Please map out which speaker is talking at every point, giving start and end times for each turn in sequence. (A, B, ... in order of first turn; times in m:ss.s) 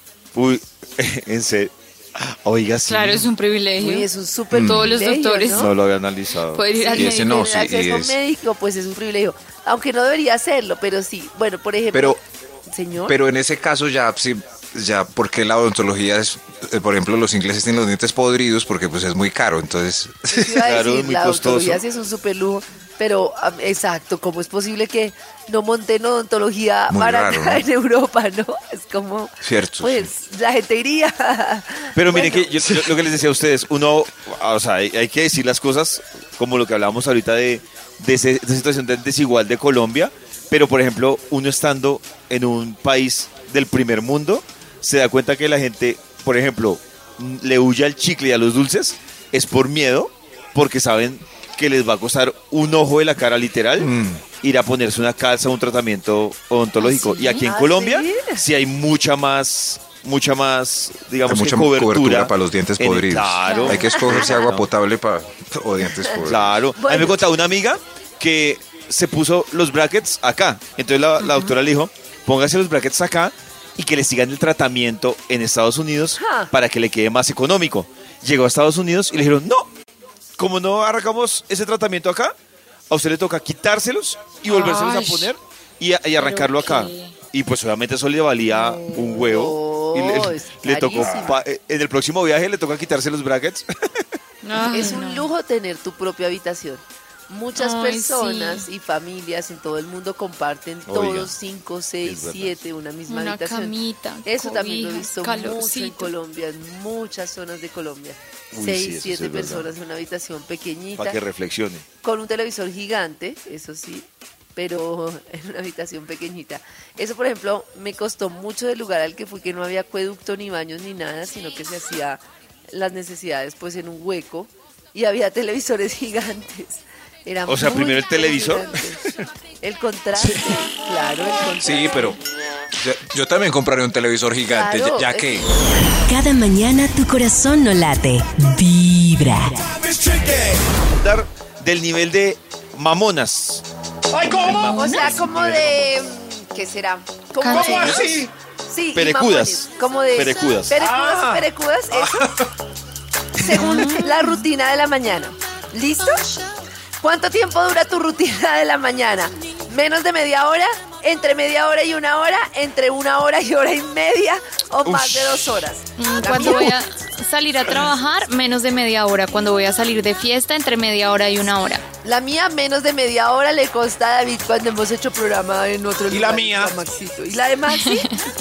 0:00.3-0:03.3 A
0:02.9-0:05.8 B
0:03.8-0:05.7 C
0:04.5-0:04.8 D
0:05.5-0:06.6 A
0:06.5-0:07.3 B
0:06.7-0:13.2 C
0:06.9-0:08.2 D
0:11.9-0:12.2 D
0:13.1-0:20.6 D
0:20.3-0:32.5 C
0:20.6-0:21.8 A
0:26.9-0:27.6 D
0:29.4-0:30.1 D
0:31.9-1:04.7 A
0:32.6-0:33.0 D
0:53.8-0:54.2 D
0:56.8-0:57.4 B
0:57.4-0:58.4 C
1:01.2-1:06.6 D
1:03.4-1:03.9 B
1:03.8-1:04.4 C
1:06.0-1:07.2 C
1:06.3-1:19.7 A
1:11.2-1:11.5 B
1:16.2-1:16.5 C
1:20.4-1:22.3 A
1:22.9-1:34.2 A
1:24.4-1:25.3 B
1:26.2-1:27.2 B
1:28.5-1:29.1 B
1:29.0-1:31.4 C
1:31.0-1:31.3 D
1:34.4-1:35.3 B
1:34.7-1:51.2 C
1:37.5-1:38.7 B
1:40.9-1:41.3 A
1:42.0-1:42.5 A
1:43.1-1:46.1 B
1:48.5-1:49.7 A
1:51.0-1:51.8 A
1:52.0-2:09.0 C
2:07.5-2:08.7 A
2:09.6-2:12.2 C
2:10.2-2:10.6 D
2:11.6-2:12.2 D
2:12.8-2:15.5 D
2:14.5-2:15.4 C
2:16.1-2:19.8 E
2:20.2-2:23.6 A
2:24.2-2:24.6 D
2:24.2-2:26.0 A
2:24.6-2:25.0 B
2:24.6-2:32.3 C
2:27.4-2:28.0 B
2:27.5-2:28.3 D
2:27.6-2:28.0 A
2:28.9-2:30.8 A
2:30.8-2:32.4 D
2:33.4-2:36.3 C
2:33.5-2:34.4 B
2:37.0-2:46.7 C
2:44.8-2:45.6 A
2:46.0-2:51.8 B
2:52.0-2:58.2 C
2:56.1-2:56.8 D
2:57.7-2:58.0 B